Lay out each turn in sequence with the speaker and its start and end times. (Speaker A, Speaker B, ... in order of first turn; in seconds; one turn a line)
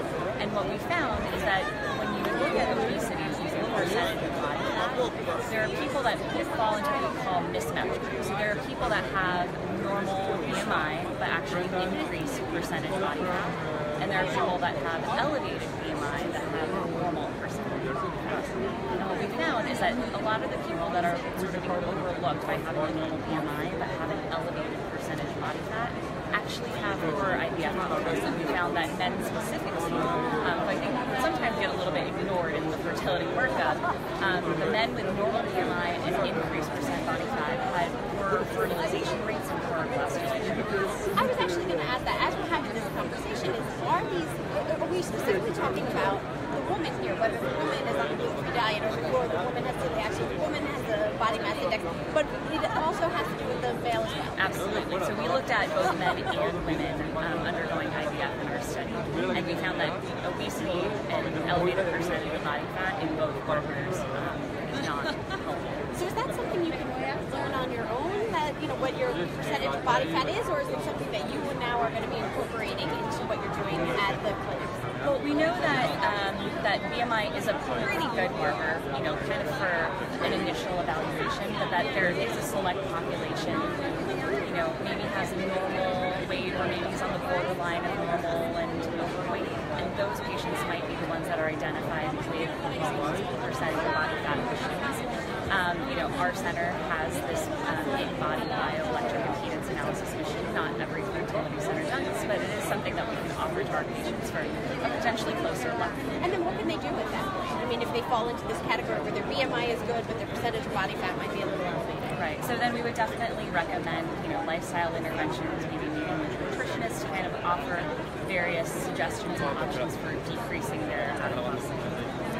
Speaker A: 0.4-41.1
Speaker B: 41.1-54.4
Speaker A: 54.4-65.9
Speaker B: 65.9-74.8
Speaker A: 75.0-106.1
Speaker B: 106.2-112.1
Speaker A: 112.1-122.2